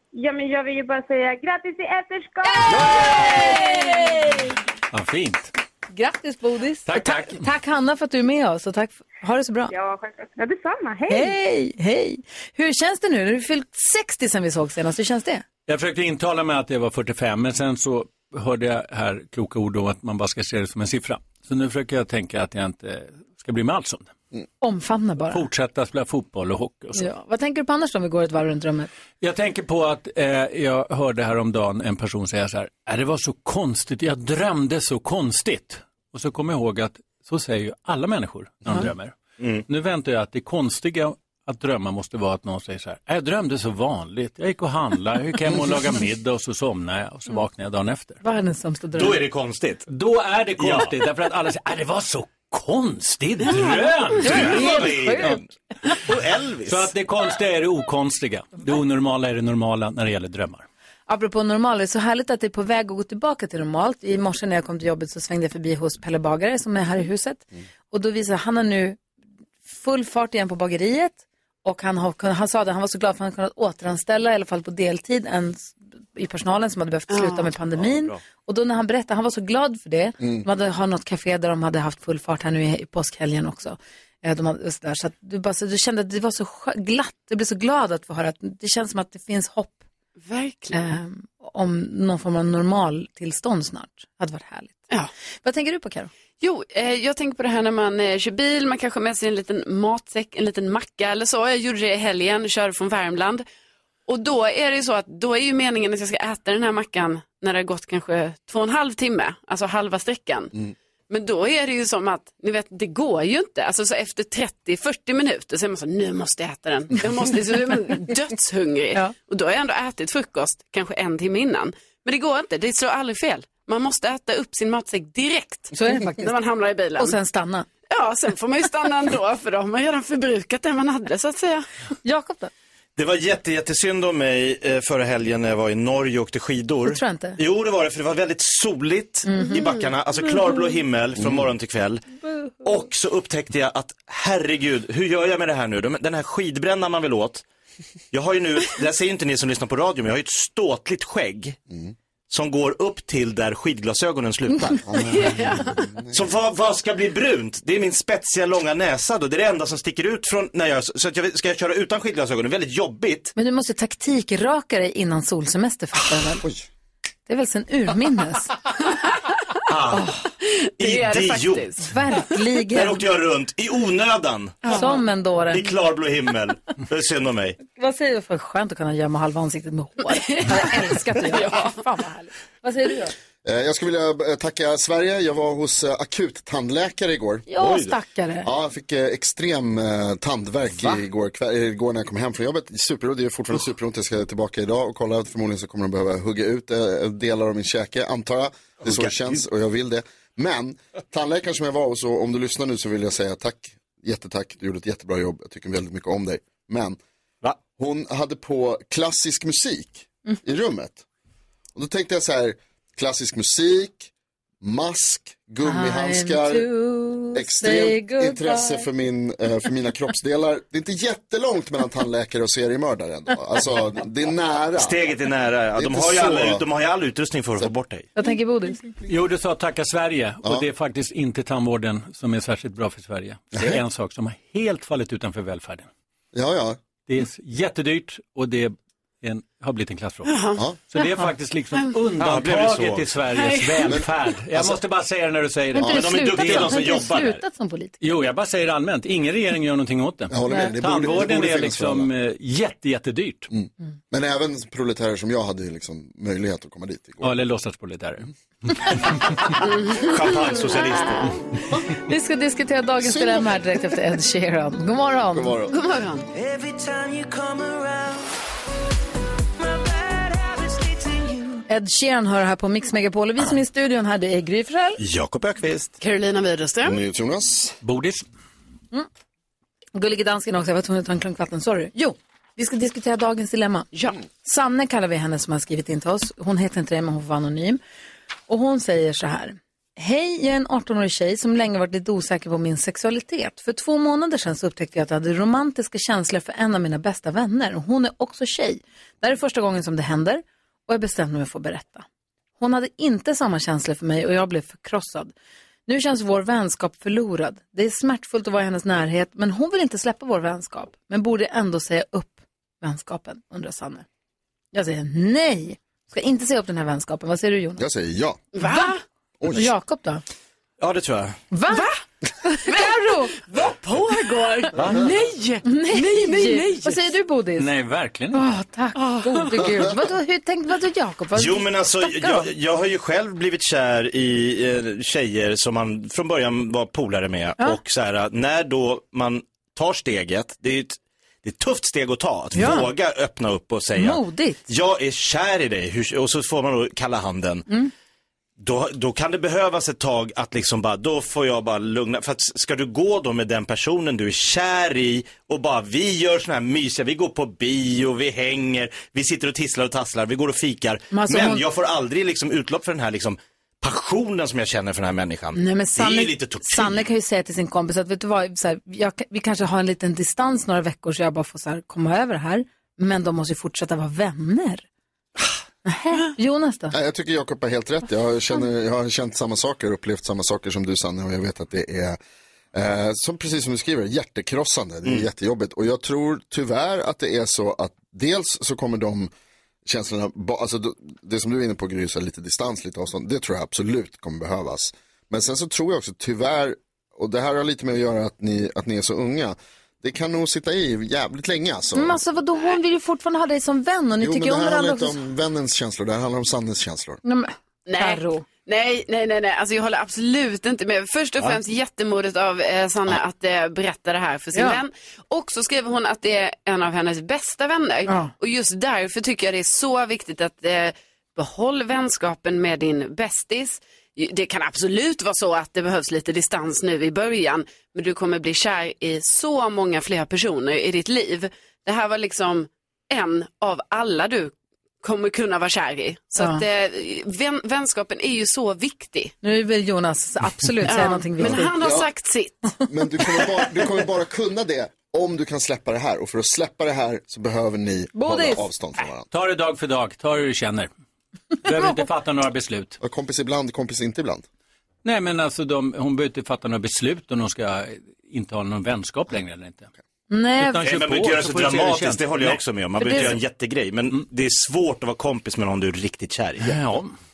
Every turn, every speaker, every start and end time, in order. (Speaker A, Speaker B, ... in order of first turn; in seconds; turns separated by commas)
Speaker A: 0.1-3.7, Speaker B: 2.4-4.5, Speaker C: 4.9-5.5, Speaker B: 5.9-9.7, Speaker C: 6.8-7.4, Speaker A: 9.7-11.3, Speaker B: 11.1-15.4, Speaker C: 15.7-24.1, Speaker B: 24.6-25.4, Speaker C: 25.3-27.1, Speaker B: 26.9-28.9, Speaker C: 29.2-48.2, Speaker D: 39.4-39.6, Speaker B: 48.2-49.2, Speaker D: 48.9-49.9, Speaker C: 49.9-55.3, Speaker D: 50.6-50.9, Speaker B: 54.2-55.4, Speaker D: 54.2-55.5, Speaker D: 56.0-56.9, Speaker C: 56.7-60.6, Speaker B: 61.1-69.0, Speaker B: 69.7-89.8, Speaker E: 77.1-77.5, Speaker D: 77.8-78.2, Speaker E: 90.2-90.8, Speaker B: 90.7-94.8, Speaker B: 95.4-96.1, Speaker E: 96.4-103.4, Speaker E: 104.1-110.5, Speaker E: 111.1-127.2, Speaker B: 125.7-126.3, Speaker B: 127.0-127.7, Speaker E: 127.9-131.7, Speaker B: 132.0-132.5, Speaker D: 132.9-142.0, Speaker B: 136.8-137.4, Speaker B: 139.2-139.6, Speaker F: 141.2-141.5, Speaker D: 142.6-147.4, Speaker D: 148.1-151.6, Speaker D: 152.3-155.0, Speaker F: 154.8-156.2, Speaker E: 155.1-155.8, Speaker D: 156.1-163.3, Speaker B: 163.3-166.4, Speaker B: 167.3-168.5, Speaker D: 169.7-170.1, Speaker B: 169.9-170.2, Speaker E: 170.4-171.8, Speaker D: 170.8-171.7, Speaker B: 171.8-173.0, Speaker D: 172.7-174.9, Speaker B: 174.7-175.7, Speaker D: 175.5-177.6, Speaker B: 177.7-183.1, Speaker E: 180.3-180.7, Speaker E: 181.3-181.7, Speaker F: 183.4-187.8, Speaker B: 187.5-188.5, Speaker F: 188.4-207.0, Speaker D: 198.8-199.3, Speaker F: 207.7-211.0, Speaker F: 211.7-214.1, Speaker F: 214.6-216.7, Speaker B: 215.6-218.8, Speaker F: 217.3-225.1, Speaker D: 224.8-228.1, Speaker F: 225.7-226.6, Speaker B: 228.2-228.8, Speaker C: 229.1-235.9, Speaker F: 233.5-233.8, Speaker F: 236.3-236.8, Speaker C: 237.1-246.8, Speaker E: 240.2-240.6, Speaker D: 242.2-243.1, Speaker E: 243.3-243.9, Speaker F: 243.8-244.8, Speaker B: 245.7-248.0, Speaker D: 245.9-247.4, Speaker C: 248.0-253.5, Speaker F: 250.3-252.1, Speaker B: 250.5-250.7, Speaker F: 253.5-257.3, Speaker C: 257.2-258.9, Speaker E: 259.6-260.1, Speaker D: 259.9-261.4, Speaker B: 261.9-265.5, Speaker F: 263.0-263.6, Speaker F: 265.3-265.7, Speaker E: 265.7-266.3, Speaker G: 266.4-268.1, Speaker G: 269.8-271.6, Speaker B: 271.7-275.0, Speaker D: 275.0-275.9, Speaker E: 276.0-277.0, Speaker F: 276.8-277.8, Speaker C: 277.8-278.2, Speaker B: 279.9-283.9, Speaker B: 284.4-287.8, Speaker B: 288.5-302.0, Speaker B: 302.6-305.3, Speaker B: 305.9-314.0, Speaker B: 314.7-317.8, Speaker F: 317.8-318.4, Speaker E: 318.5-319.0, Speaker B: 318.6-318.9, Speaker F: 319.4-319.7, Speaker B: 319.5-320.2, Speaker D: 320.8-321.4, Speaker B: 321.5-321.9, Speaker B: 322.4-323.4, Speaker E: 322.6-327.0, Speaker B: 325.6-327.7, Speaker C: 327.6-328.4, Speaker B: 328.3-332.5, Speaker E: 329.0-329.3, Speaker D: 331.3-347.7, Speaker B: 342.5-342.9, Speaker B: 343.9-344.6, Speaker D: 348.6-367.1, Speaker B: 361.1-361.6, Speaker B: 365.5-374.9, Speaker B: 375.8-376.9, Speaker F: 376.9-382.2, Speaker F: 382.7-389.3, Speaker F: 389.8-402.2, Speaker B: 401.9-405.2, Speaker F: 404.2-407.2, Speaker B: 407.2-408.4, Speaker E: 407.9-439.3, Speaker B: 414.5-414.8, Speaker B: 436.4-436.6, Speaker B: 439.4-441.7, Speaker E: 440.9-442.5, Speaker F: 441.4-442.1, Speaker F: 442.9-449.3, Speaker B: 448.1-448.6, Speaker C: 449.3-450.9, Speaker C: 451.6-453.0, Speaker F: 453.0-454.4, Speaker C: 455.0-459.9, Speaker B: 460.3-460.8, Speaker C: 460.6-462.6, Speaker D: 460.8-466.7, Speaker B: 463.0-463.4, Speaker C: 466.6-467.1